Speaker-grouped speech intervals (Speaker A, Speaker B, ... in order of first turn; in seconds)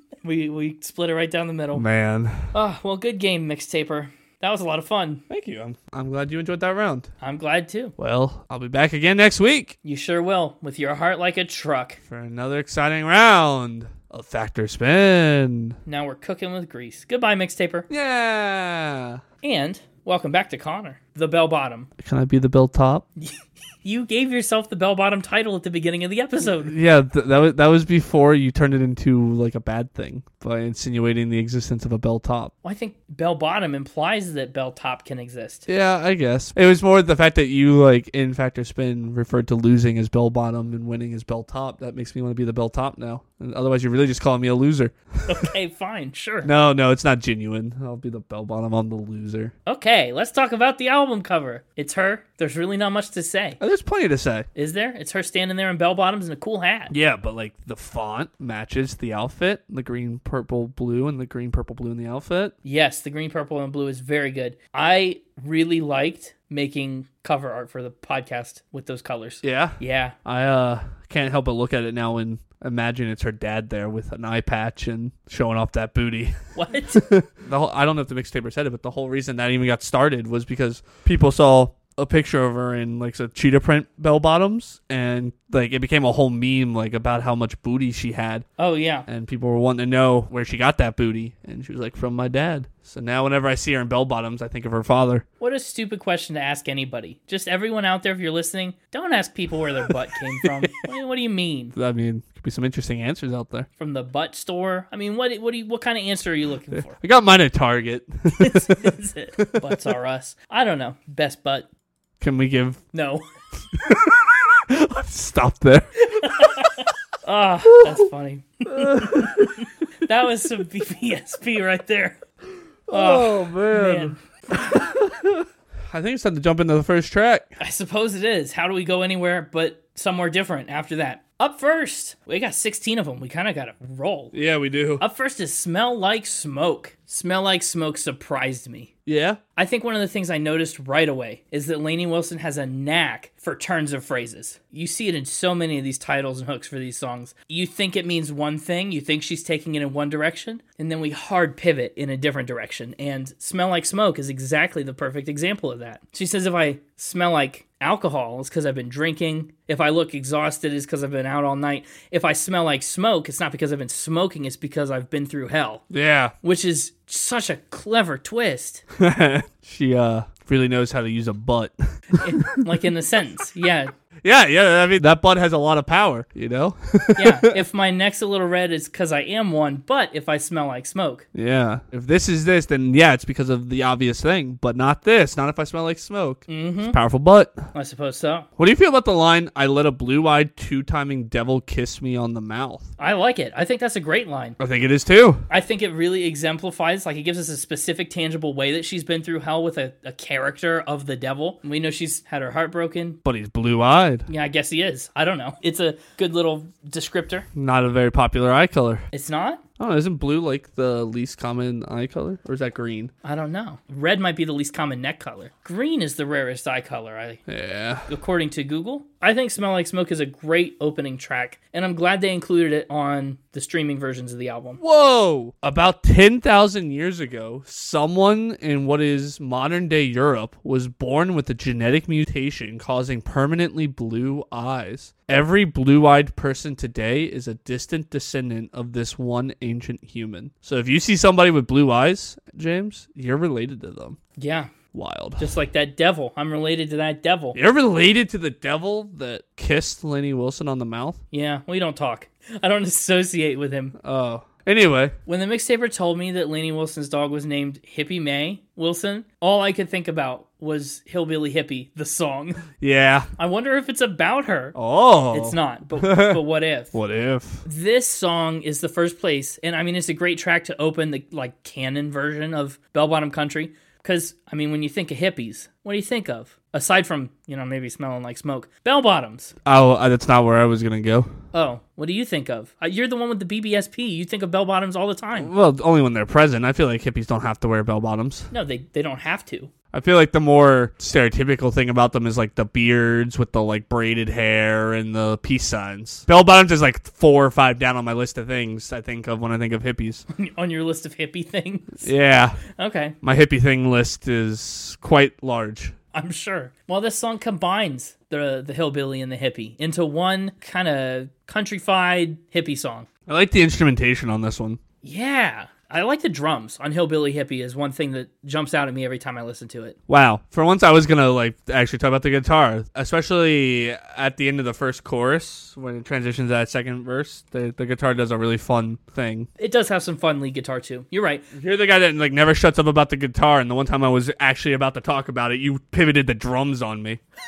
Speaker A: 0.2-1.9, 2.5-5.2, 7.2-8.0, 9.8-12.0, 15.9-17.9, 19.4-21.9, 23.2-26.7, 32.6-35.7, 45.3-46.5, 49.7-53.6, 54.5-56.9, 62.6-70.2, 76.5-77.0, 88.6-89.1, 95.4-101.8, 103.8-107.0, 108.4-111.7, 112.9-113.2, 116.0-122.2, 122.9-124.2, 127.6-134.3, 135.0-138.9, 139.6-165.8, 166.4-168.8, 172.2-173.9, 177.2-181.3, 186.5-187.0, 187.7-188.5, 193.0-194.6, 195.5-203.2, 204.3-207.5, 209.1-209.6, 213.2-217.4, 218.1-224.8, 244.4-244.7, 245.4-247.6, 251.3-254.0, 255.3-262.7, 263.4-264.8, 265.3-266.9, 267.6-279.6, 281.5-285.5, 288.5-289.7, 300.3-302.1, 302.6-303.2, 306.1-313.1, 315.0-320.0, 329.6-331.5
Speaker B: 1.8-2.5, 5.3-7.1, 8.0-9.8, 12.1-15.8, 17.9-19.2, 22.0-23.1, 26.6-32.5, 35.7-45.5, 46.4-49.5, 53.6-54.5, 56.9-62.5, 69.4-76.3, 76.9-88.5, 89.1-95.2, 101.8-103.7, 106.9-109.7, 112.2-112.8, 113.7-115.9, 118.7-119.6, 122.9-127.5, 134.3-135.0, 139.1-139.4, 165.9-166.3, 169.0-172.6, 174.2-177.6, 181.3-187.6, 188.6-192.9, 194.6-195.4, 203.2-204.3, 207.6-209.1, 209.8-213.1, 217.5-218.1, 224.8-244.2, 244.9-245.5, 247.6-251.2, 254.0-255.2, 262.8-263.3, 264.8-266.4, 266.9-267.6, 279.6-281.3, 285.4-288.5, 289.9-300.2, 302.0-302.6, 303.2-305.9, 313.3-314.8, 320.1-329.5, 331.5-337.2